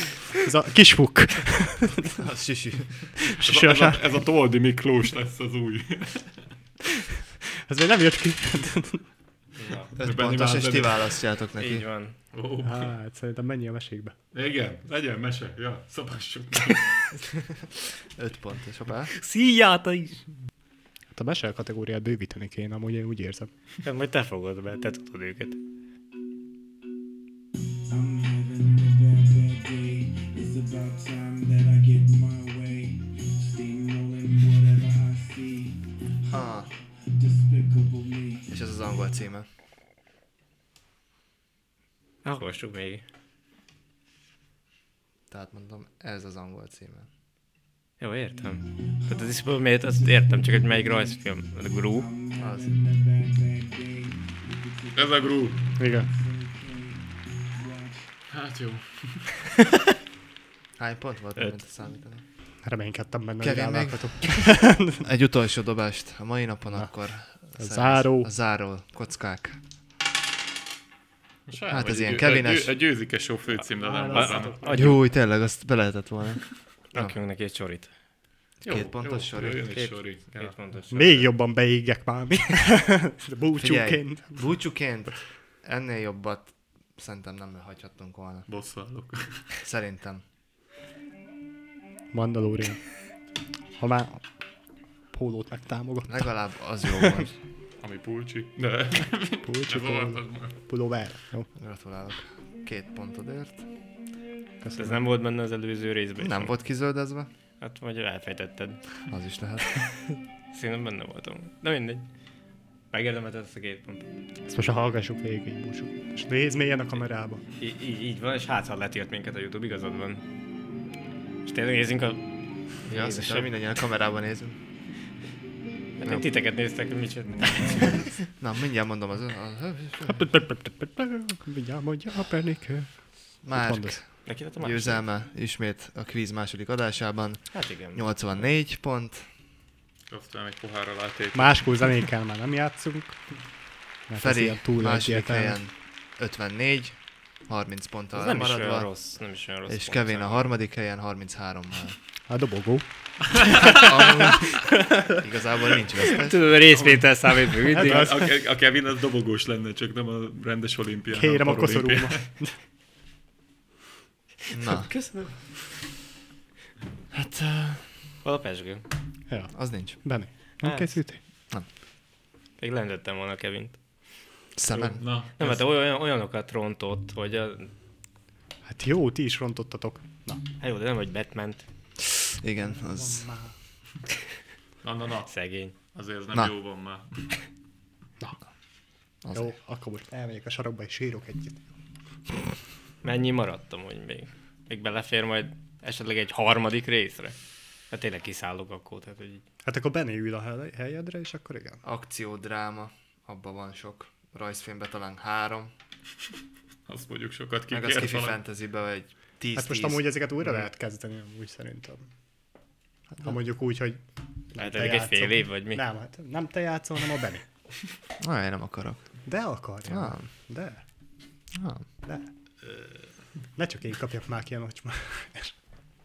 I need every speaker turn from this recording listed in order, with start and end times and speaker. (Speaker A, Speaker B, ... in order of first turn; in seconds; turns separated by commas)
Speaker A: 0.4-2.2, Speaker B: 2.1-3.2, Speaker A: 3.2-4.0, Speaker C: 3.4-6.3, Speaker A: 7.7-9.0, Speaker C: 9.6-11.2, Speaker B: 10.0-11.9, Speaker D: 11.6-12.1, Speaker C: 12.3-12.9, Speaker A: 12.6-14.1, Speaker C: 14.3-17.1, Speaker B: 17.2-19.1, Speaker D: 19.1-20.2, Speaker A: 21.1-23.5, Speaker D: 23.8-25.6, Speaker E: 27.9-36.4, Speaker B: 36.3-36.7, Speaker E: 37.0-38.5, Speaker B: 38.5-39.5, Speaker D: 42.2-43.0, Speaker B: 45.3-47.1, Speaker D: 48.0-52.1, Speaker E: 48.8-58.1, Speaker B: 52.4-52.8, Speaker C: 54.9-55.6, Speaker A: 55.8-56.1, Speaker C: 58.3-59.3, Speaker B: 60.8-62.2, Speaker A: 62.6-65.1, Speaker B: 63.4-69.6, Speaker A: 67.6-68.3, Speaker C: 71.5-75.0, Speaker B: 71.7-72.7, Speaker D: 74.0-75.0, Speaker B: 74.7-77.2, Speaker D: 76.9-77.9, Speaker B: 78.6-79.8, Speaker C: 78.6-80.5, Speaker D: 79.7-81.3, Speaker A: 80.9-84.5, Speaker B: 83.6-88.5, Speaker C: 88.5-89.5, Speaker B: 89.6-90.2, Speaker A: 92.1-92.8, Speaker A: 93.8-94.2, Speaker A: 95.1-96.3, Speaker B: 96.1-97.4, Speaker C: 97.8-100.6, Speaker A: 99.4-101.5, Speaker B: 101.5-103.7, Speaker A: 104.6-105.0, Speaker D: 104.8-106.6, Speaker B: 106.2-107.3, Speaker D: 107.6-108.8, Speaker B: 109.1-109.7, Speaker D: 110.1-112.0, Speaker D: 112.9-114.1, Speaker A: 114.5-117.4, Speaker D: 117.6-120.2, Speaker D: 121.5-122.2, Speaker D: 122.8-123.5, Speaker B: 122.9-124.6, Speaker D: 126.0-128.1, Speaker B: 128.4-130.2, Speaker A: 130.0-132.9, Speaker B: 133.4-139.3, Speaker A: 133.5-134.0, Speaker D: 134.2-135.0, Speaker D: 137.5-138.1, Speaker C: 140.1-141.9, Speaker A: 141.3-143.2, Speaker A: 144.1-145.6, Speaker B: 144.2-148.9, Speaker D: 148.1-150.5, Speaker B: 149.7-152.0, Speaker A: 152.3-155.2, Speaker C: 153.4-153.9, Speaker B: 153.6-156.6, Speaker D: 156.0-158.1, Speaker C: 156.7-162.2, Speaker A: 157.7-158.3, Speaker A: 161.1-162.6, Speaker B: 164.5-164.9, Speaker D: 164.5-165.3, Speaker B: 167.1-167.9, Speaker D: 168.2-168.8, Speaker A: 169.3-171.2, Speaker B: 169.5-170.0, Speaker D: 170.6-170.9, Speaker D: 172.6-173.8, Speaker B: 174.6-175.0, Speaker D: 174.7-177.7, Speaker C: 175.0-175.6, Speaker A: 178.7-180.4, Speaker D: 180.6-181.6, Speaker B: 182.1-183.2, Speaker A: 182.6-183.5, Speaker C: 184.8-187.4, Speaker D: 185.3-185.7, Speaker B: 189.2-189.6, Speaker A: 189.3-191.6, Speaker D: 193.0-197.3, Speaker D: 197.9-199.4, Speaker A: 199.6-201.8, Speaker B: 201.8-205.7, Speaker C: 206.9-208.4, Speaker B: 207.7-210.1, Speaker A: 209.6-212.1, Speaker A: 213.2-214.0, Speaker A: 214.5-217.4, Speaker D: 214.6-215.8, Speaker B: 218.2-219.2, Speaker A: 219.2-220.8, Speaker B: 219.8-220.2, Speaker B: 221.5-221.8, Speaker A: 223.6-225.5